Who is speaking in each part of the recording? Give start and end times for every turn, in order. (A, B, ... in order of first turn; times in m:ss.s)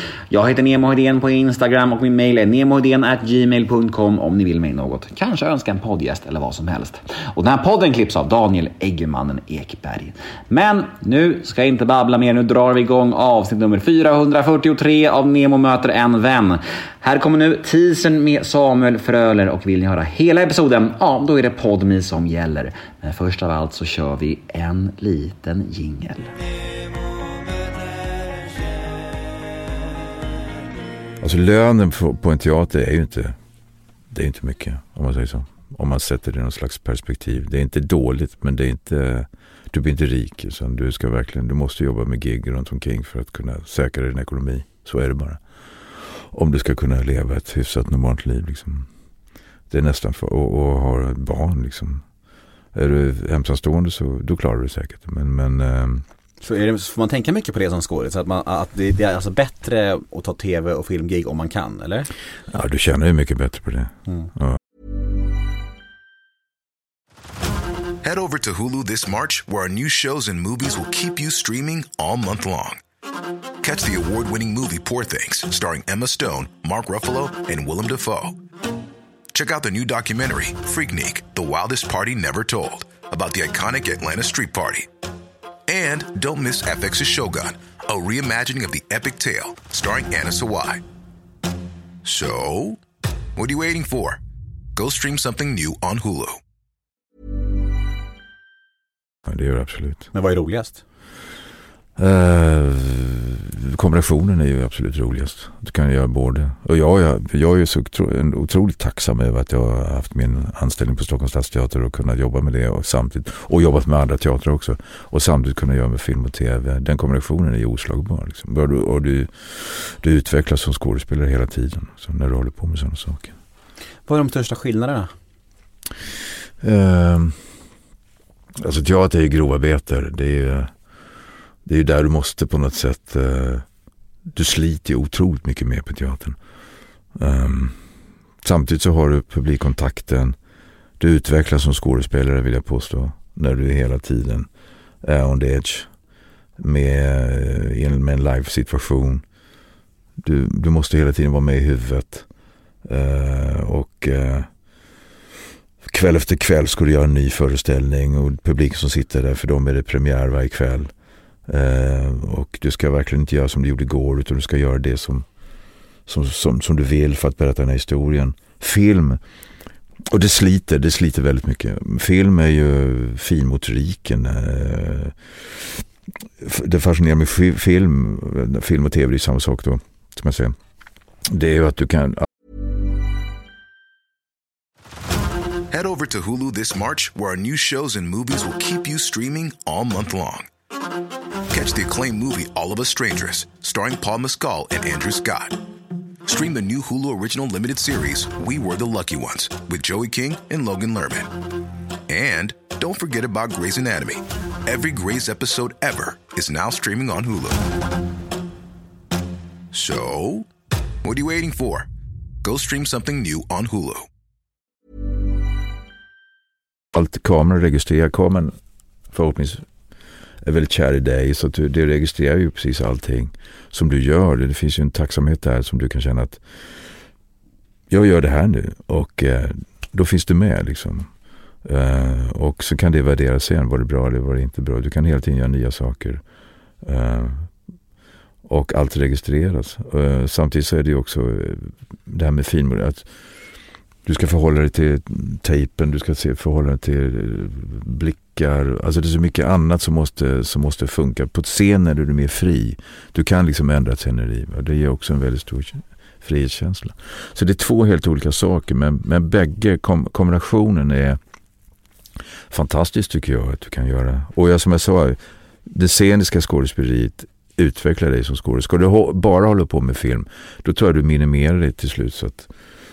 0:00.3-0:26.3 A
0:31.2-0:33.3 B
0:34.1-0:48.9 B
0:49.7-0:52.1 B
0:52.7-0:56.0 B
0:56.4-1:02.1 C
1:02.5-1:04.6 B
1:08.0-1:12.8 D
1:13.6-1:18.4 D
1:19.3-1:24.9 D
1:25.7-1:30.8 D
1:32.0-1:32.8 D
1:33.4-1:34.2 D
1:34.8-1:36.4 D
1:39.2-1:40.0 B
1:40.1-1:40.8 C
1:42.0-2:03.4 B
2:04.0-2:05.1 C
2:06.6-2:07.4 B
2:08.6-2:10.7 B
2:11.6-2:13.6 B
2:14.3-2:16.4 B
2:17.1-2:17.8 B
2:18.4-2:20.4 B
2:21.0-2:24.5 B
2:25.0-2:26.0 B
2:26.6-2:29.2 B
2:30.2-2:32.3 B
2:32.8-2:34.5 B
2:35.8-2:40.9 B
2:41.5-2:45.2 B
2:46.0-2:49.2 B
2:50.1-2:55.8 B
2:56.4-3:00.5 B
3:01.3-3:02.2 B
3:05.7-3:10.5 D
3:11.5-3:15.6 D
3:16.3-3:21.3 D
3:22.1-3:27.6 D
3:29.7-3:30.5 D
3:31.0-3:31.9 D
3:32.4-3:34.1 D
3:36.9-3:38.5 B
3:39.1-3:39.6 B
3:40.4-3:46.4 B
3:47.9-3:56.2 B
3:56.8-3:57.7 B
3:58.4-4:21.2 B
4:22.5-4:32.5 B